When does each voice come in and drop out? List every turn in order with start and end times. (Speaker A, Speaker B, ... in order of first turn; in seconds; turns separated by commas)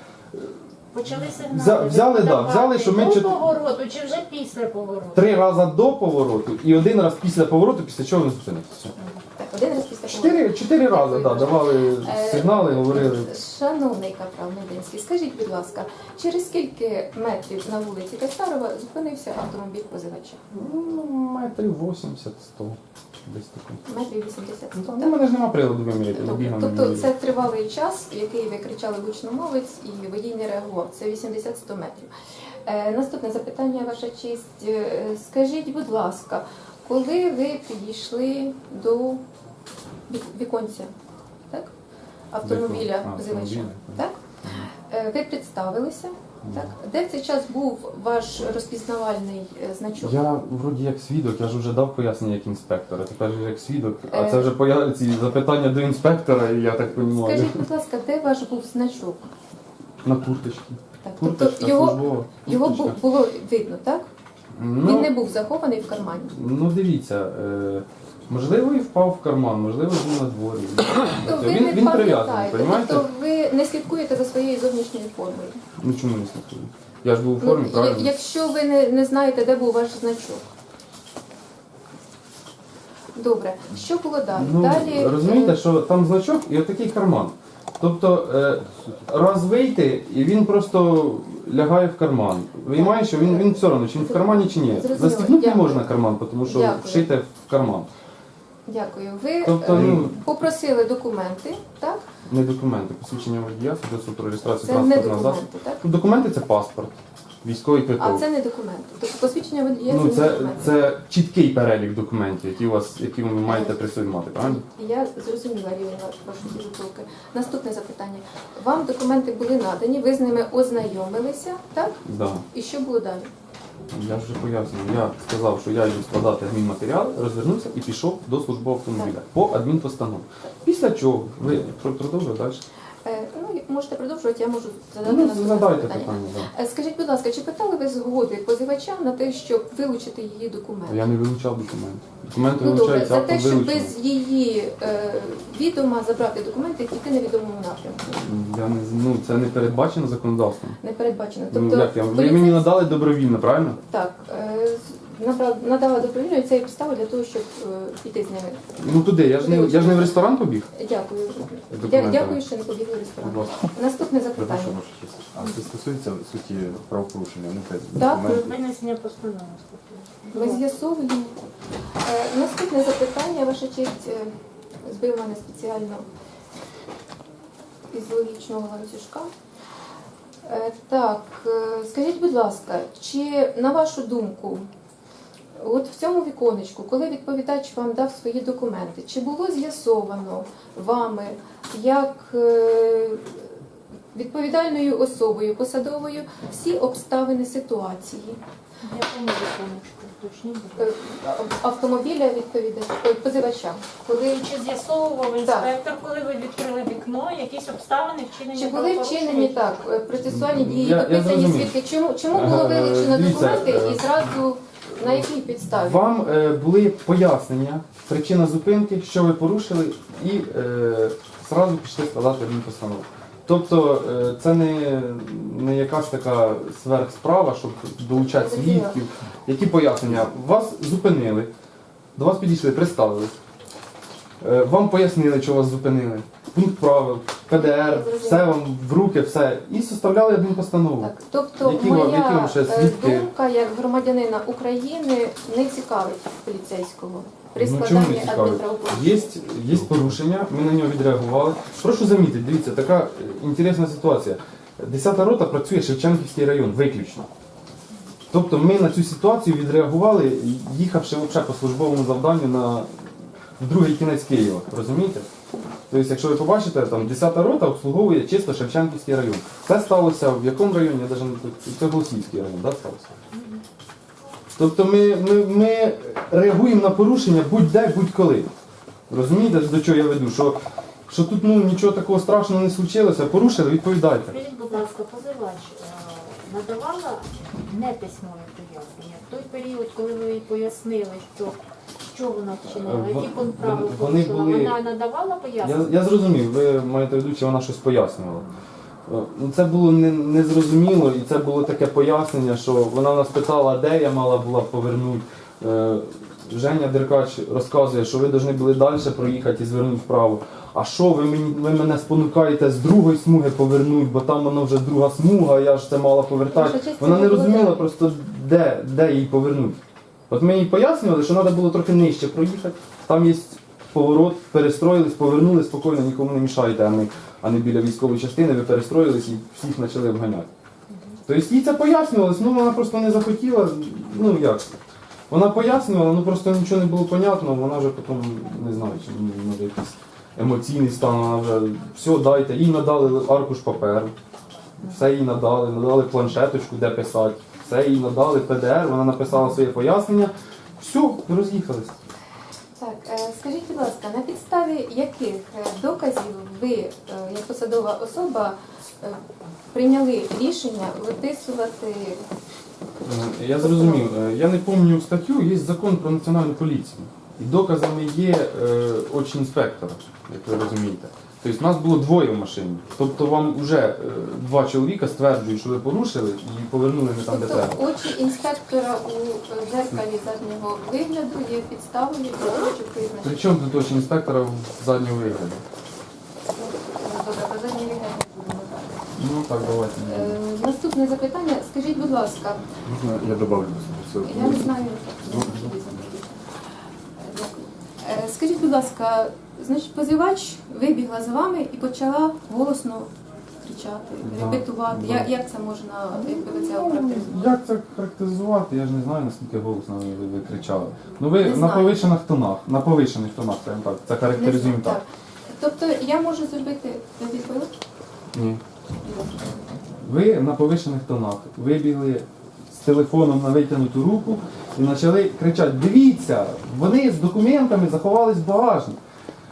Speaker A: 0.3-0.6, Speaker B: 0.9-5.3, Speaker A: 1.3-3.4, Speaker A: 5.1-8.9, Speaker C: 9.2-20.4, Speaker A: 10.1-13.3, Speaker A: 20.5-23.8, Speaker C: 23.9-25.2, Speaker A: 24.7-27.1, Speaker C: 26.1-32.1, Speaker C: 32.6-39.2, Speaker C: 40.1-40.9, Speaker C: 42.3-44.2, Speaker A: 42.4-44.7, Speaker C: 44.8-50.2, Speaker A: 46.5-46.7, Speaker A: 50.0-57.6, Speaker C: 54.1-54.5, Speaker C: 57.1-59.2, Speaker A: 60.0-63.0, Speaker C: 61.0-64.1, Speaker A: 64.5-65.1, Speaker C: 64.8-66.3, Speaker A: 66.3-73.0, Speaker C: 71.2-75.6, Speaker A: 75.8-78.2, Speaker C: 77.4-80.4, Speaker C: 83.1-85.6, Speaker A: 84.3-97.9, Speaker C: 92.7-97.1, Speaker C: 98.7-102.1, Speaker A: 99.4-100.1, Speaker A: 102.3-108.2, Speaker C: 104.6-105.8, Speaker C: 108.0-110.7, Speaker A: 109.9-114.6, Speaker C: 113.4-123.3, Speaker A: 122.0-122.5, Speaker A: 123.9-132.6, Speaker C: 133.0-141.0, Speaker A: 135.0-136.5, Speaker A: 140.8-143.9, Speaker C: 142.6-148.2, Speaker A: 148.1-150.8, Speaker C: 150.8-152.9, Speaker A: 151.5-153.8, Speaker C: 153.9-160.2, Speaker A: 158.8-160.7, Speaker C: 160.7-164.8, Speaker A: 161.7-162.4, Speaker A: 163.2-163.7, Speaker D: 164.4-168.5, Speaker C: 167.9-168.5, Speaker B: 168.2-170.6, Speaker C: 170.3-171.4, Speaker C: 172.0-174.3, Speaker C: 174.8-176.1, Speaker C: 177.9-179.3, Speaker C: 180.4-184.7, Speaker C: 185.6-193.4, Speaker C: 194.1-198.4, Speaker B: 198.8-200.9, Speaker C: 200.8-204.3, Speaker B: 204.1-209.9, Speaker C: 205.4-205.7, Speaker C: 208.5-216.1, Speaker A: 210.2-211.8, Speaker A: 212.3-214.4, Speaker A: 215.0-231.5, Speaker C: 228.1-229.0, Speaker A: 232.1-233.4, Speaker A: 234.4-243.3, Speaker C: 237.5-238.6, Speaker C: 241.0-249.5, Speaker A: 247.6-257.3, Speaker A: 258.3-263.0, Speaker A: 263.6-265.3, Speaker A: 265.9-273.1, Speaker B: 273.3-273.6, Speaker A: 274.5-278.5, Speaker A: 279.1-284.4, Speaker B: 284.3-295.9, Speaker A: 292.6-294.8, Speaker A: 295.6-298.5, Speaker A: 299.1-330.5, Speaker C: 316.5-317.9, Speaker B: 330.9-331.2, Speaker A: 331.2-334.7, Speaker A: 335.3-344.1, Speaker A: 344.8-351.9, Speaker C: 352.8-359.2, Speaker C: 359.7-362.2, Speaker A: 363.0-377.8, Speaker C: 363.6-364.1, Speaker C: 377.2-383.4, Speaker A: 383.2-385.6, Speaker C: 386.5-389.0, Speaker A: 389.1-390.4, Speaker C: 390.0-392.6, Speaker D: 392.9-394.8, Speaker C: 394.2-396.4, Speaker A: 395.3-395.6, Speaker C: 397.2-403.1, Speaker C: 403.6-407.5, Speaker A: 404.2-405.3, Speaker A: 406.1-415.0, Speaker C: 411.4-412.1, Speaker C: 414.3-417.7, Speaker A: 418.3-418.6, Speaker C: 419.0-419.6, Speaker A: 420.0-429.0